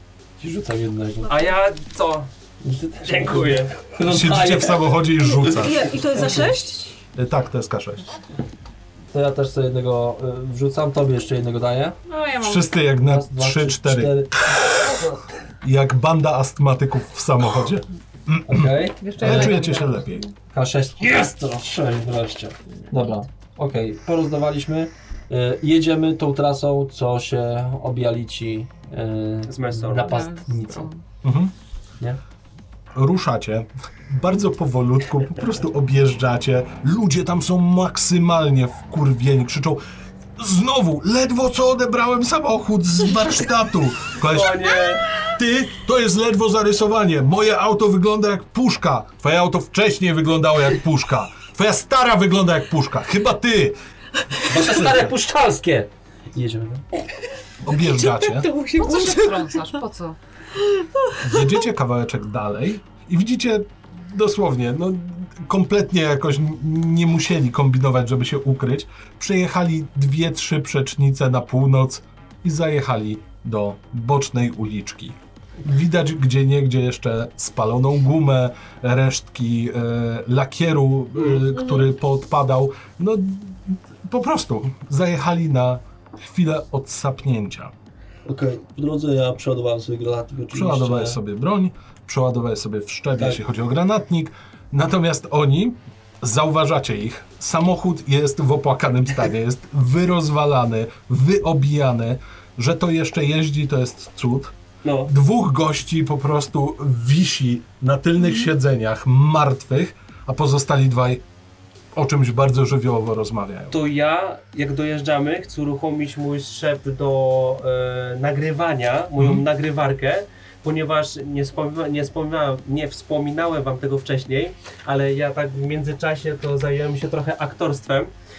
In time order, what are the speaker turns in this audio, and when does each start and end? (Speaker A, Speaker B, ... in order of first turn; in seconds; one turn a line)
Speaker A: 0.4-1.6
Speaker B: 1.3-2.3
Speaker A: 2.6-5.0
Speaker B: 3.0-3.8
Speaker C: 4.0-5.9
Speaker D: 5.4-7.0
Speaker C: 7.1-8.1
Speaker A: 9.1-12.0
Speaker E: 12.1-12.7
Speaker C: 12.4-14.9
Speaker A: 13.0-15.1
Speaker C: 15.6-20.2
Speaker A: 18.5-19.7
Speaker E: 19.0-20.3
Speaker A: 20.5-30.9
Speaker B: 29.4-30.2
Speaker E: 30.1-31.0
Speaker C: 31.2-31.5
Speaker C: 32.9-39.8
Speaker C: 40.4-53.8
Speaker B: 44.2-45.1
Speaker A: 54.5-56.8
Speaker C: 54.5-55.1
Speaker C: 57.6-58.5
Speaker D: 57.7-59.8
Speaker E: 58.7-60.2
Speaker D: 60.7-61.6
Speaker C: 61.2-87.7
Speaker A: 88.2-91.2
Speaker C: 90.5-104.5
Speaker B: 104.8-105.1
Speaker C: 105.0-111.2
Speaker C: 111.9-113.8
Speaker B: 113.7-128.1
Speaker C: 119.2-119.4